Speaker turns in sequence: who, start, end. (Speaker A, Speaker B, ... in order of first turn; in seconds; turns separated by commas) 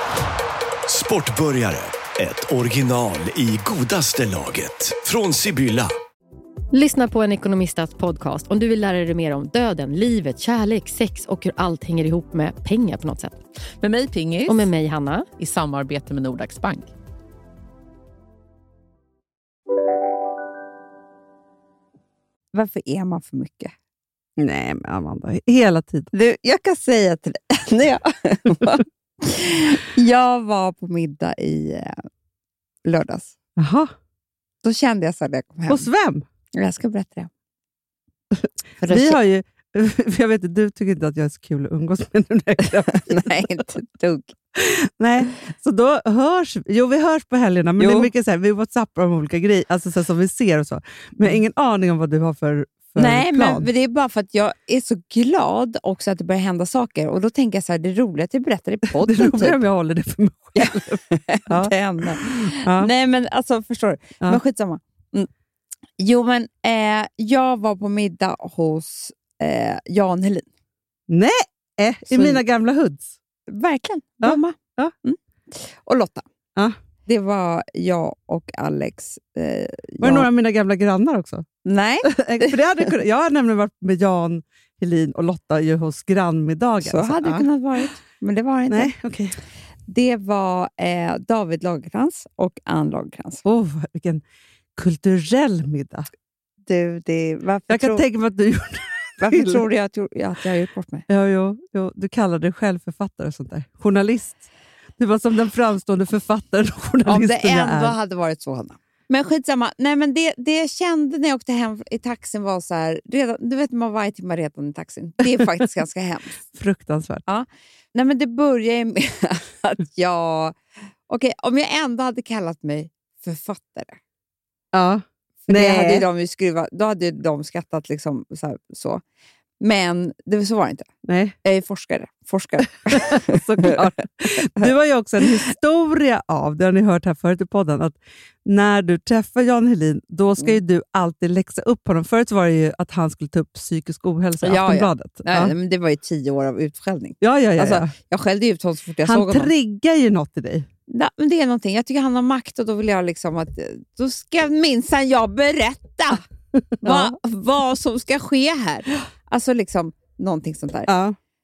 Speaker A: 0.9-5.9, Speaker B: 6.7-13.4, Speaker C: 13.8-14.6, Speaker B: 14.4-15.3, Speaker C: 15.4-16.9, Speaker D: 22.5-23.7, Speaker E: 24.4-26.1, Speaker D: 26.1-32.0, Speaker D: 32.9-33.3, Speaker E: 33.6-33.9, Speaker D: 34.6-35.9, Speaker E: 35.7-36.2, Speaker D: 36.5-37.3, Speaker E: 38.4-43.6, Speaker D: 38.8-39.2, Speaker D: 42.9-44.4, Speaker E: 44.5-53.7, Speaker D: 47.8-48.1, Speaker D: 53.0-59.6, Speaker E: 59.0-62.9, Speaker D: 60.6-65.3, Speaker D: 66.0-70.5, Speaker E: 71.1-73.1, Speaker D: 72.1-72.4, Speaker D: 73.5-76.3, Speaker E: 74.2-74.9, Speaker D: 77.1-80.3, Speaker E: 80.0-81.5, Speaker D: 81.7-82.9, Speaker E: 82.0-87.5, Speaker D: 86.8-88.9, Speaker E: 88.7-89.4, Speaker D: 89.9-93.4, Speaker E: 93.5-94.2, Speaker E: 94.8-96.1, Speaker D: 96.7-98.0, Speaker E: 97.7-99.7, Speaker D: 99.2-101.1, Speaker E: 101.1-104.4, Speaker E: 105.0-108.0, Speaker D: 107.1-116.4, Speaker E: 115.3-115.6, Speaker E: 116.5-117.2, Speaker D: 117.3-120.6, Speaker D: 121.1-124.0, Speaker E: 124.7-126.1, Speaker D: 125.5-129.0, Speaker D: 129.6-130.9, Speaker E: 131.1-131.4, Speaker D: 131.4-135.2, Speaker E: 132.9-145.6, Speaker D: 144.4-149.5, Speaker E: 147.2-147.9, Speaker E: 149.1-150.7, Speaker D: 150.9-156.2, Speaker E: 156.8-157.2, Speaker D: 156.8-160.9, Speaker E: 160.9-161.2